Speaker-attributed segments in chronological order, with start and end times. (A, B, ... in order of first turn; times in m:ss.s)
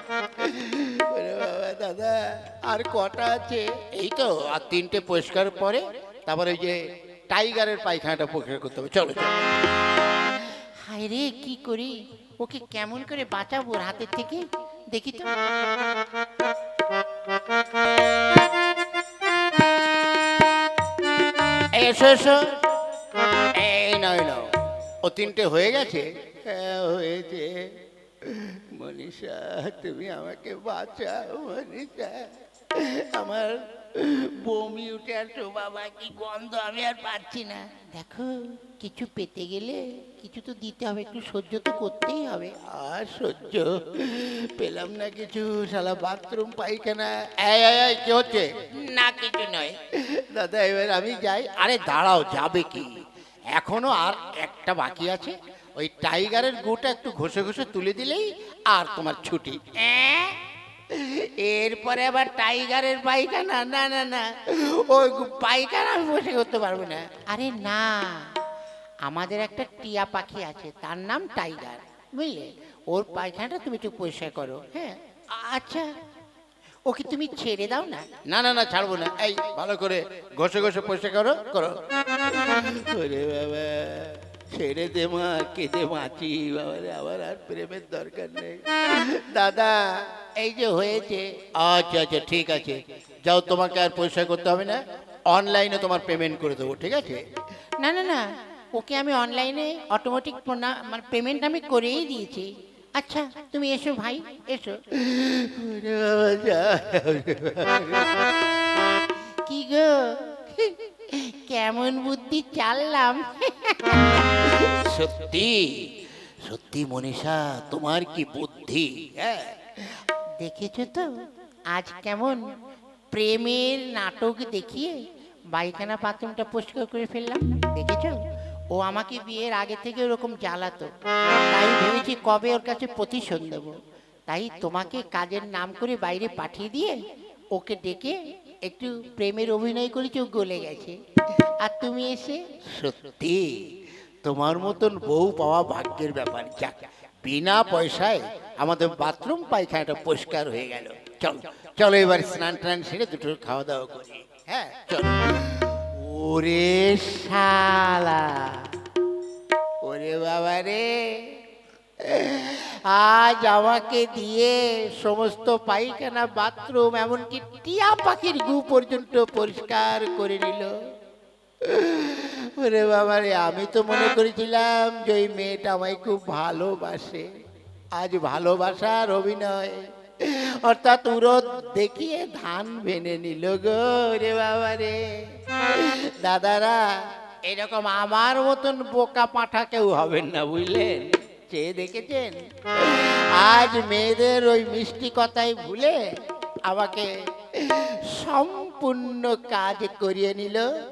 0:00.4-0:06.8 A
0:07.3-0:09.3 A
0:10.9-0:15.3 B
0:21.7-0:22.5 A
0:23.6-0:24.5 A
0:25.0-0:27.6 A
0:28.3-0:37.8 A
0:38.0-0:42.3 B
0:41.4-0:48.5 A
0:48.8-0:49.8 B
0:50.1-0:52.9 A
0:53.5-0:59.8 A
0:59.8-1:00.4 B
1:00.9-1:07.2 A
1:01.5-1:04.0 B
1:07.2-1:08.3 B
1:09.1-1:15.9 B
1:16.9-1:18.2 B
1:18.1-1:21.8 A
1:22.3-1:29.8 A
1:30.4-1:34.8 A
1:35.3-1:37.2 A
1:37.8-1:38.2 B
1:38.8-1:44.8 B
1:44.8-1:48.1 A
1:49.5-1:54.3 B
1:54.4-1:55.9 A
1:56.4-1:59.5 A
2:00.4-2:01.1 B
2:01.7-2:02.4 B
2:03.1-2:05.0 B
2:05.6-2:08.2 B
2:08.8-2:10.9 B
2:11.5-2:13.8 B
2:14.3-2:17.0 B
2:17.6-2:18.2 B
2:18.7-2:21.0 B
2:21.6-2:22.4 B
2:22.7-2:23.5 A
2:24.2-2:38.7 A
2:39.8-2:41.4 A
2:42.0-2:50.7 A
2:51.6-2:57.3 A
2:58.0-3:05.0 A
3:05.7-3:06.9 A
3:07.5-3:16.0 A
3:16.7-3:20.7 A